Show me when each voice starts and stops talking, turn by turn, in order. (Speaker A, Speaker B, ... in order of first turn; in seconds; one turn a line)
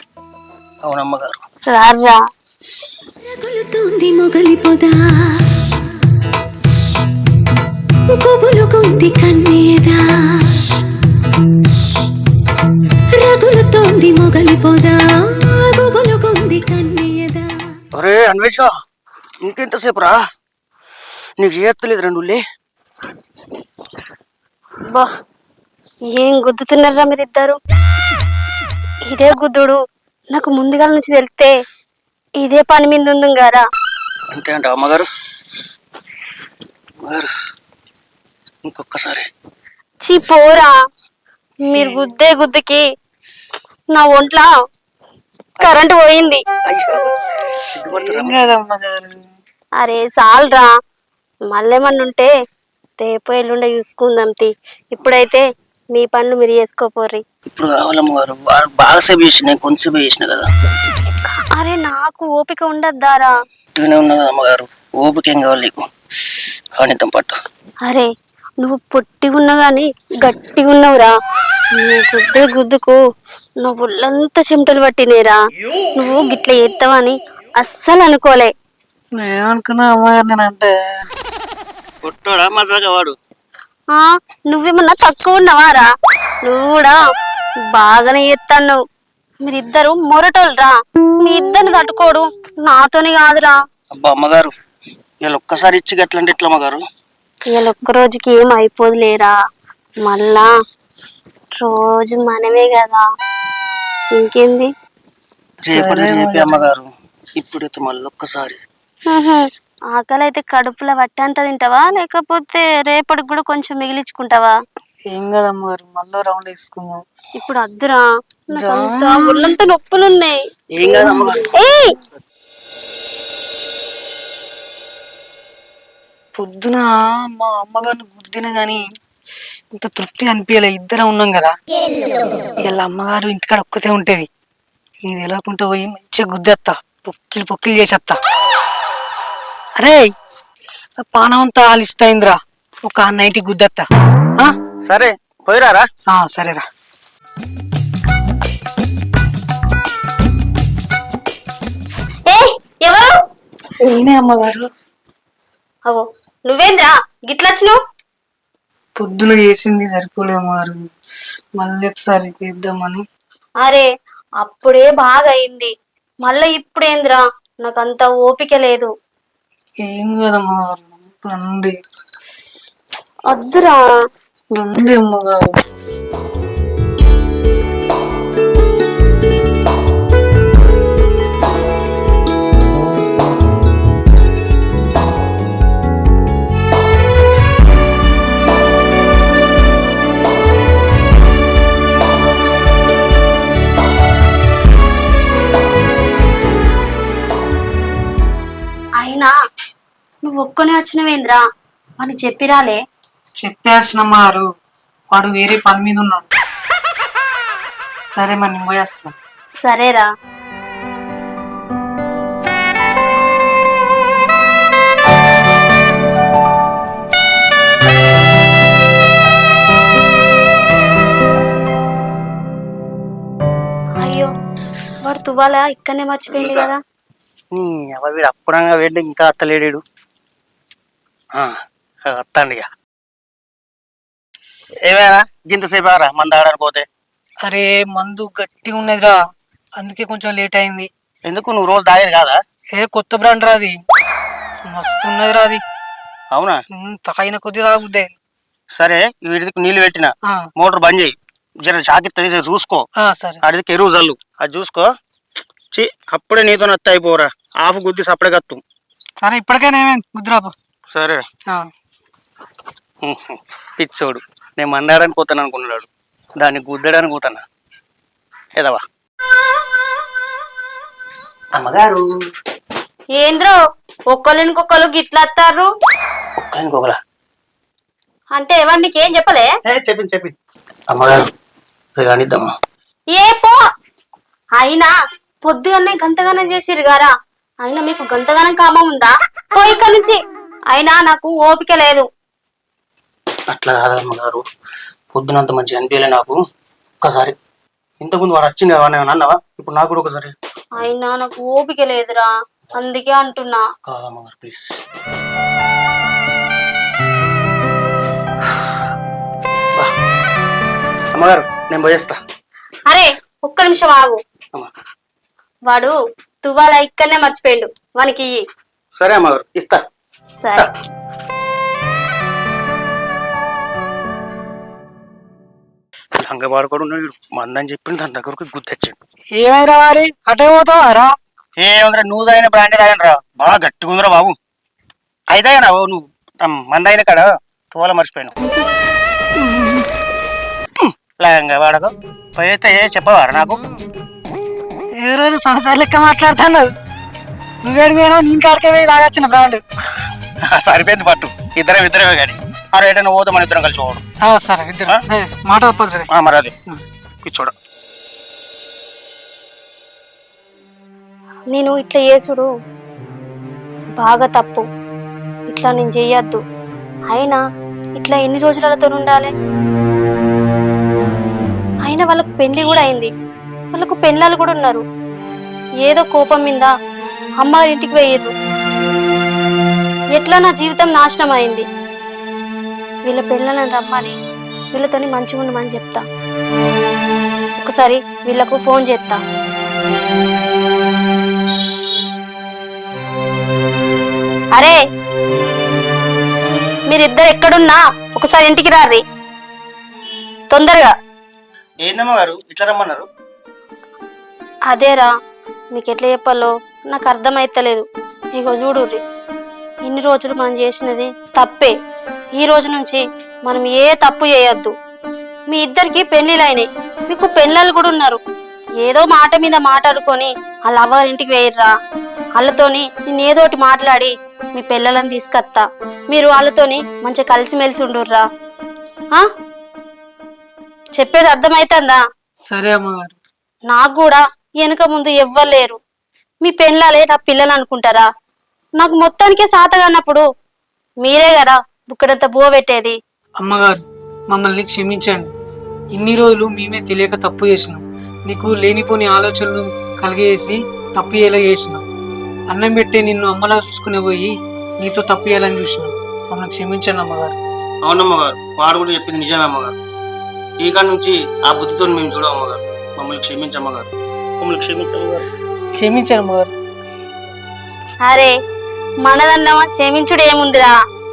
Speaker A: 0.8-1.4
Speaker B: 1.7-2.2
Speaker C: 3.2-5.6
Speaker C: 8.1-10.8
Speaker C: 13.1-17.6
Speaker A: 17.9-18.7
Speaker A: 19.4-20.2
Speaker A: 21.4-22.4
Speaker B: 26.1-27.6
Speaker B: 29.1-29.8
Speaker B: 30.3-31.5
Speaker B: 32.4-33.6
Speaker A: 34.3-35.1
Speaker A: 37.0-37.3
Speaker A: 38.7-39.3
Speaker B: 40.0-40.7
Speaker B: 41.7-42.8
Speaker D: 41.7-42.0
Speaker B: 43.9-44.5
Speaker B: 45.6-46.4
Speaker A: 46.7-48.4
Speaker D: 47.9-49.3
Speaker B: 49.8-50.7
Speaker B: 51.5-52.3
Speaker B: 53.0-55.4
Speaker B: 55.9-57.2
Speaker A: 57.5-60.5
Speaker B: 61.6-63.3
Speaker A: 63.8-65.8
Speaker A: 66.7-67.3
Speaker B: 68.6-71.1
Speaker B: 71.8-73.0
Speaker B: 73.6-75.4
Speaker B: 76.0-78.5
Speaker D: 79.2-81.1
Speaker A: 82.0-83.2
Speaker B: 83.9-85.9
Speaker B: 86.5-87.0
Speaker B: 87.7-88.8
Speaker B: 89.4-93.6
Speaker A: 93.9-94.5
Speaker A: 95.2-96.8
Speaker B: 97.5-99.3
Speaker B: 100.0-100.5
Speaker B: 101.6-103.0
Speaker B: 104.2-104.7
Speaker A: 105.7-108.6
Speaker D: 105.7-106.7
Speaker B: 109.1-114.5
Speaker D: 115.1-117.0
Speaker B: 117.4-120.4
Speaker D: 118.5-119.5
Speaker A: 120.7-121.5
Speaker D: 120.9-121.5
Speaker B: 121.5-121.9
Speaker D: 126.4-128.8
Speaker D: 129.8-131.5
Speaker D: 132.6-134.3
Speaker D: 135.1-138.2
Speaker D: 139.8-140.1
Speaker D: 141.0-143.9
Speaker A: 144.9-145.8
Speaker D: 146.1-146.6
Speaker B: 152.3-153.2
Speaker D: 153.8-154.7
Speaker B: 155.9-157.8
Speaker D: 159.0-160.9
Speaker D: 161.6-163.0
Speaker B: 163.6-163.9
Speaker B: 164.4-165.7
Speaker B: 166.2-168.9
Speaker D: 169.8-171.7
Speaker B: 173.3-173.8
Speaker D: 174.6-175.5
Speaker B: 199.0-199.3
Speaker B: 200.2-201.4
Speaker B: 202.0-202.8
Speaker D: 203.4-204.5
Speaker D: 205.1-206.3
Speaker D: 208.1-209.1
Speaker B: 209.6-210.1
Speaker B: 224.0-224.3
Speaker B: 225.0-226.8
Speaker A: 227.5-229.8
Speaker A: 232.1-232.7
Speaker A: 234.8-236.9
Speaker D: 237.4-239.2
Speaker D: 239.8-240.9
Speaker A: 241.3-242.4
Speaker D: 242.8-243.8
Speaker D: 244.7-245.6
Speaker A: 246.3-246.6
Speaker D: 246.8-248.2
Speaker A: 248.8-252.8
Speaker D: 253.0-253.4
Speaker A: 253.4-254.9
Speaker A: 255.7-258.6
Speaker D: 259.2-260.5
Speaker A: 260.9-261.2
Speaker A: 263.0-265.9
Speaker A: 266.4-267.4
Speaker A: 271.6-272.1
Speaker B: 273.2-273.6
Speaker B: 274.1-275.7
Speaker A: 276.4-277.0
Speaker B: 278.3-279.5
Speaker A: 279.7-280.3
Speaker A: 280.9-281.2
Speaker A: 282.0-282.5
Speaker B: 283.1-283.6
Speaker B: 284.6-284.9
Speaker B: 285.4-287.1
Speaker B: 287.6-290.2
Speaker B: 290.7-292.1
Speaker A: 293.5-294.4
Speaker A: 295.1-296.4
Speaker A: 297.0-297.4
Speaker A: 298.0-300.3
Speaker B: 300.8-303.6
Speaker A: 303.9-304.8
Speaker A: 311.1-312.2
Speaker B: 312.9-314.2
Speaker B: 315.7-318.4
Speaker A: 319.0-319.8
Speaker B: 320.4-320.7
Speaker A: 326.2-329.0
Speaker D: 329.4-331.1
Speaker A: 331.6-334.4
Speaker A: 335.3-338.3
Speaker D: 339.4-339.9
Speaker A: 340.8-343.6
Speaker D: 345.0-346.7
Speaker D: 347.6-349.6
Speaker A: 350.5-354.0
Speaker D: 354.2-356.1
Speaker A: 356.1-356.5
Speaker A: 357.2-357.5
Speaker B: 361.5-362.5
Speaker B: 364.0-364.6
Speaker B: 365.5-366.4
Speaker B: 367.1-367.4
Speaker B: 368.0-369.3
Speaker B: 371.9-373.1
Speaker B: 373.7-374.8
Speaker B: 375.9-376.7
Speaker B: 377.4-378.3
Speaker B: 380.1-381.7
Speaker B: 383.1-384.1
Speaker B: 384.7-386.0
Speaker B: 387.6-389.2
Speaker B: 396.9-399.0
Speaker B: 400.5-400.9
Speaker A: 401.8-403.1
Speaker B: 404.7-405.1
Speaker B: 405.7-409.0
Speaker B: 409.9-411.7
Speaker B: 412.4-414.7
Speaker B: 415.5-418.2
Speaker B: 418.8-421.7
Speaker B: 422.4-428.2
Speaker B: 431.0-432.0
Speaker D: 432.5-433.2
Speaker B: 433.7-435.8
Speaker B: 436.4-438.1
Speaker B: 438.8-440.2
Speaker B: 441.0-443.0
Speaker D: 443.4-443.8
Speaker D: 444.3-445.3
Speaker D: 445.9-451.8
Speaker D: 452.5-457.4
Speaker A: 457.8-459.7
Speaker A: 460.6-465.2
Speaker D: 465.8-466.5
Speaker B: 469.0-470.7